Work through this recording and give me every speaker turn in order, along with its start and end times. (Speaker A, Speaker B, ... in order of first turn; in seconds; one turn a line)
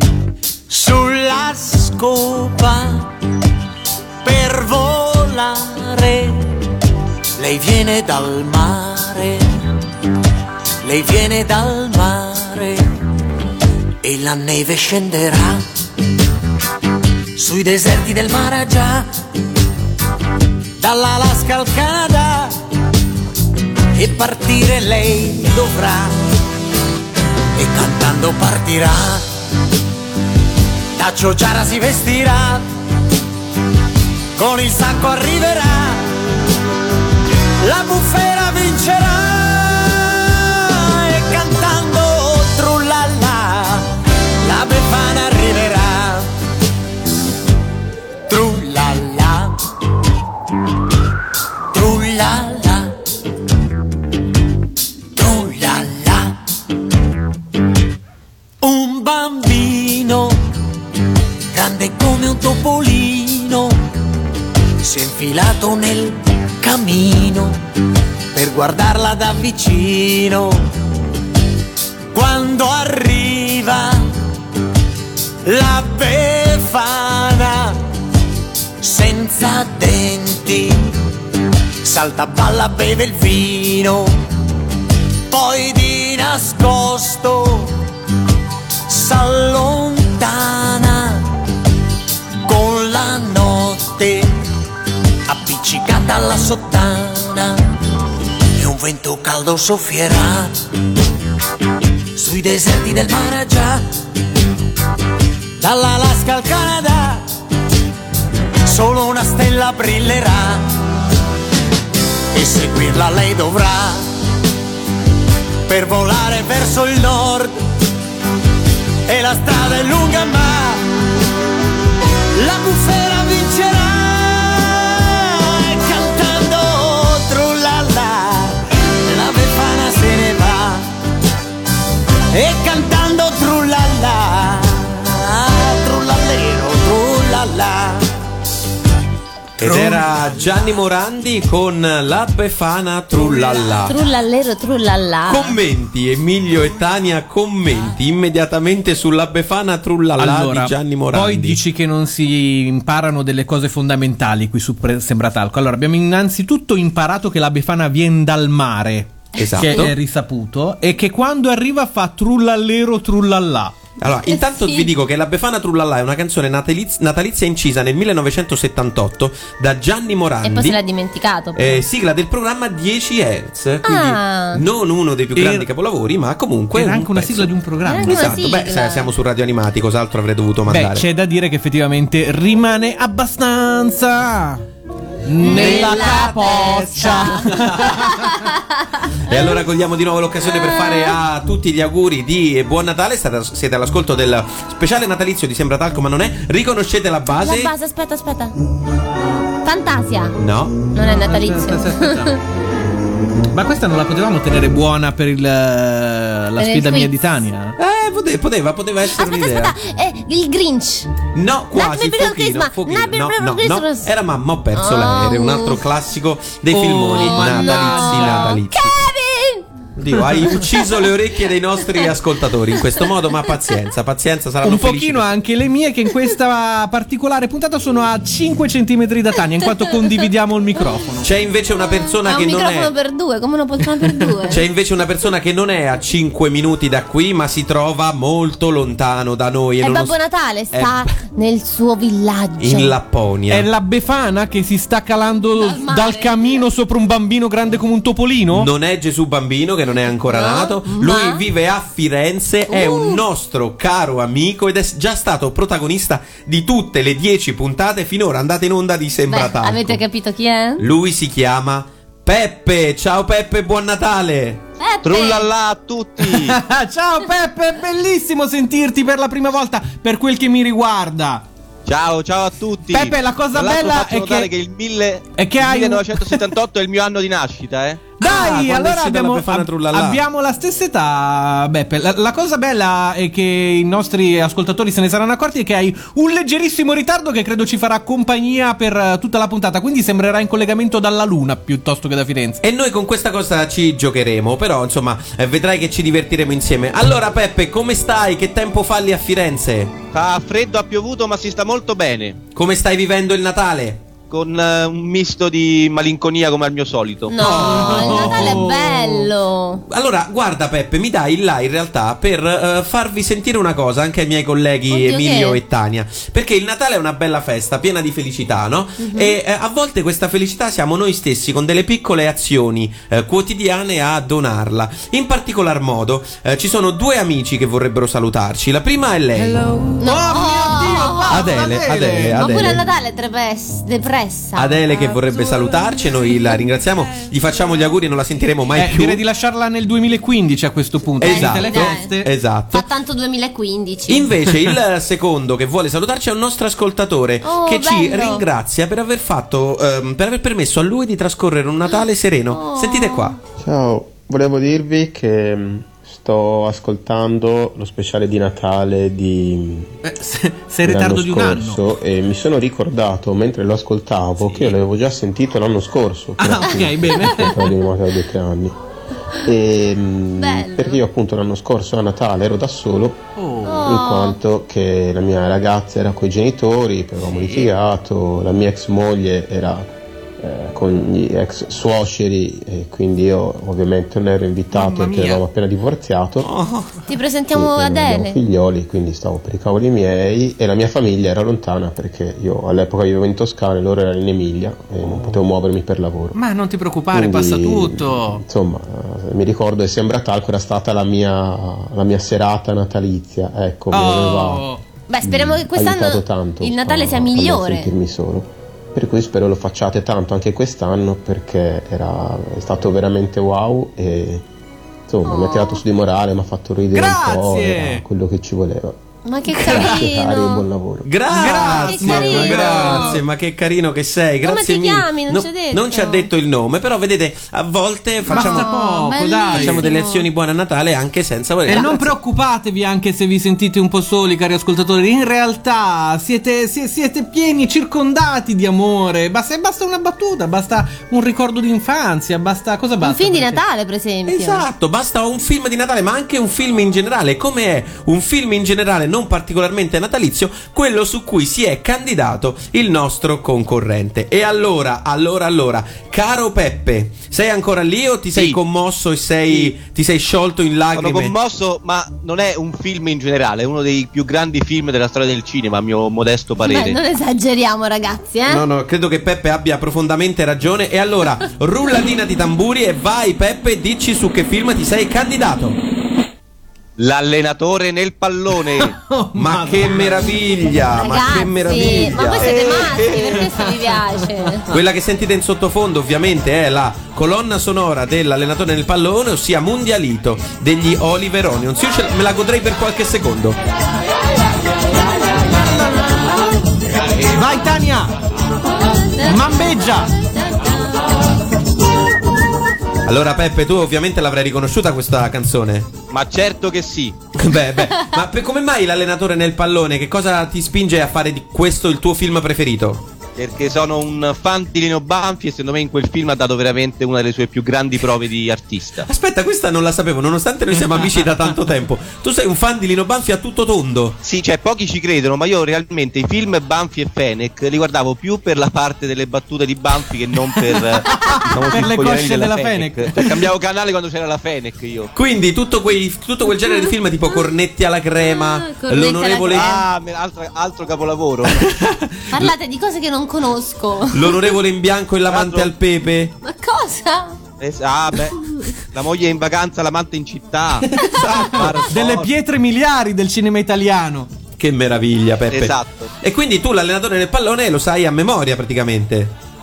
Speaker A: 0.7-3.1
Speaker A: 4.2-6.4
Speaker A: 7.3-9.4
Speaker A: 10.8-12.8
Speaker A: 14.0-15.7
Speaker A: 17.3-19.1
Speaker A: 20.8-22.5
Speaker A: 23.9-26.1
Speaker A: 27.6-29.2
Speaker A: 30.9-32.6
Speaker A: 34.4-36.1
Speaker A: 37.6-43.9
Speaker A: 44.4-46.3
Speaker A: 48.3-49.5
Speaker A: 51.7-52.9
Speaker A: 55.1-56.4
Speaker A: 58.6-60.4
Speaker A: 61.5-63.8
Speaker A: 64.8-67.6
Speaker A: 68.3-70.6
Speaker A: 72.1-74.0
Speaker A: 75.4-77.8
Speaker A: 78.8-80.8
Speaker A: 81.8-84.1
Speaker A: 85.3-87.8
Speaker A: 88.9-91.3
Speaker A: 92.4-94.3
Speaker A: 95.3-97.6
Speaker A: 98.5-100.5
Speaker A: 102.1-103.8
Speaker A: 105.6-107.2
Speaker A: 108.6-110.6
Speaker A: 112.3-114.0
Speaker A: 115.7-117.5
Speaker A: 119.0-120.8
Speaker A: 122.3-130.8
Speaker A: 132.3-138.0
Speaker A: 139.6-140.8
Speaker B: 139.6-143.9
Speaker C: 143.3-145.6
Speaker B: 145.3-151.6
Speaker D: 150.2-163.7
Speaker B: 159.3-159.9
Speaker B: 164.0-170.8
Speaker C: 164.3-164.9
Speaker C: 170.4-171.8
Speaker B: 171.5-177.5
Speaker C: 173.8-174.6
Speaker D: 175.3-175.7
Speaker D: 176.7-178.4
Speaker C: 177.8-179.1
Speaker B: 178.0-181.1
Speaker D: 180.7-184.6
Speaker D: 185.2-188.3
Speaker C: 185.4-188.6
Speaker B: 185.5-188.1
Speaker B: 189.3-197.7
Speaker C: 189.3-189.6
Speaker C: 190.4-191.2
Speaker C: 197.3-198.5
Speaker C: 199.6-200.3
Speaker B: 200.4-200.8
Speaker C: 200.9-202.4
Speaker D: 201.0-202.4
Speaker D: 203.5-207.7
Speaker C: 206.6-207.1
Speaker B: 207.8-209.7
Speaker C: 209.2-211.1
Speaker B: 211.3-218.9
Speaker C: 211.7-214.1
Speaker C: 214.7-215.8
Speaker D: 216.7-218.6
Speaker C: 217.2-219.7
Speaker B: 219.9-225.3
Speaker D: 220.2-220.5
Speaker D: 224.6-231.3
Speaker B: 231.2-232.9
Speaker C: 231.8-234.6
Speaker D: 234.0-234.5
Speaker B: 234.5-240.2
Speaker C: 239.8-242.9
Speaker B: 240.7-241.1
Speaker B: 242.6-243.7
Speaker D: 243.5-248.7
Speaker C: 245.6-246.6
Speaker B: 248.5-260.0
Speaker C: 250.2-251.4
Speaker C: 252.7-253.2
Speaker C: 259.3-260.8
Speaker B: 260.8-264.6
Speaker C: 264.8-265.5
Speaker E: 265.0-266.6
Speaker D: 266.2-271.4
Speaker E: 271.9-278.1
Speaker D: 272.9-274.5
Speaker D: 275.4-276.5
Speaker D: 278.2-292.6
Speaker B: 278.2-280.2
Speaker B: 292.6-299.9
Speaker E: 300.1-302.4
Speaker B: 302.5-304.0
Speaker E: 304.3-307.4
Speaker C: 307.3-309.8
Speaker B: 307.4-308.7
Speaker D: 307.4-309.3
Speaker B: 309.9-329.6
Speaker C: 314.9-315.6
Speaker C: 319.0-319.4
Speaker D: 329.4-332.7
Speaker C: 330.0-331.6
Speaker B: 331.3-332.8
Speaker C: 332.4-334.8
Speaker B: 334.6-339.2
Speaker D: 335.1-335.8
Speaker D: 338.7-342.3
Speaker B: 341.2-342.8
Speaker C: 341.2-342.1
Speaker C: 342.7-344.3
Speaker B: 344.1-353.4
Speaker C: 347.4-348.4
Speaker C: 352.5-353.3
Speaker F: 353.6-360.0
Speaker D: 360.0-361.8
Speaker F: 360.8-368.8
Speaker D: 364.4-364.7
Speaker D: 366.4-367.7
Speaker F: 369.4-373.2
Speaker C: 370.4-371.0
Speaker D: 373.4-373.9
Speaker C: 373.6-374.4
Speaker F: 373.7-379.9
Speaker D: 377.3-377.7
Speaker F: 380.4-386.5
Speaker D: 384.7-385.4
Speaker C: 387.1-388.4
Speaker F: 387.5-396.4
Speaker D: 395.1-395.4
Speaker D: 396.3-398.4
Speaker F: 397.1-404.7
Speaker D: 403.9-404.8
Speaker C: 405.1-407.9
Speaker F: 405.2-414.4
Speaker F: 415.1-421.1
Speaker C: 415.2-415.8
Speaker D: 416.9-418.0
Speaker C: 419.2-420.6
Speaker B: 421.0-428.7
Speaker D: 421.3-423.2
Speaker C: 421.4-423.2
Speaker C: 424.4-426.3
Speaker C: 428.2-430.3
Speaker D: 428.3-429.8
Speaker B: 429.5-432.1
Speaker D: 431.7-443.6
Speaker C: 443.0-444.6
Speaker B: 444.3-461.3
Speaker E: 460.9-467.0
Speaker C: 466.6-468.6
Speaker B: 468.5-475.8
Speaker E: 477.0-478.9
Speaker D: 478.8-480.4
Speaker B: 479.3-483.1
Speaker C: 480.9-484.7
Speaker D: 482.2-484.6
Speaker B: 484.7-493.6
Speaker D: 497.2-498.1
Speaker D: 499.2-500.1
Speaker B: 503.0-505.9
Speaker E: 506.1-507.2
Speaker B: 507.4-513.0
Speaker E: 513.4-519.0
Speaker B: 519.0-524.2
Speaker E: 524.2-535.1
Speaker D: 531.0-533.4
Speaker B: 535.1-539.7
Speaker C: 536.6-536.9
Speaker C: 538.2-539.8
Speaker E: 539.5-541.6
Speaker B: 541.5-542.5
Speaker C: 542.3-544.5
Speaker B: 544.1-546.3
Speaker E: 545.3-545.7
Speaker C: 546.4-547.4
Speaker E: 547.6-548.4
Speaker C: 548.4-548.7
Speaker E: 548.9-550.9
Speaker B: 551.0-551.8
Speaker E: 551.5-552.3
Speaker D: 551.9-554.3
Speaker B: 554.6-559.3
Speaker E: 555.5-556.1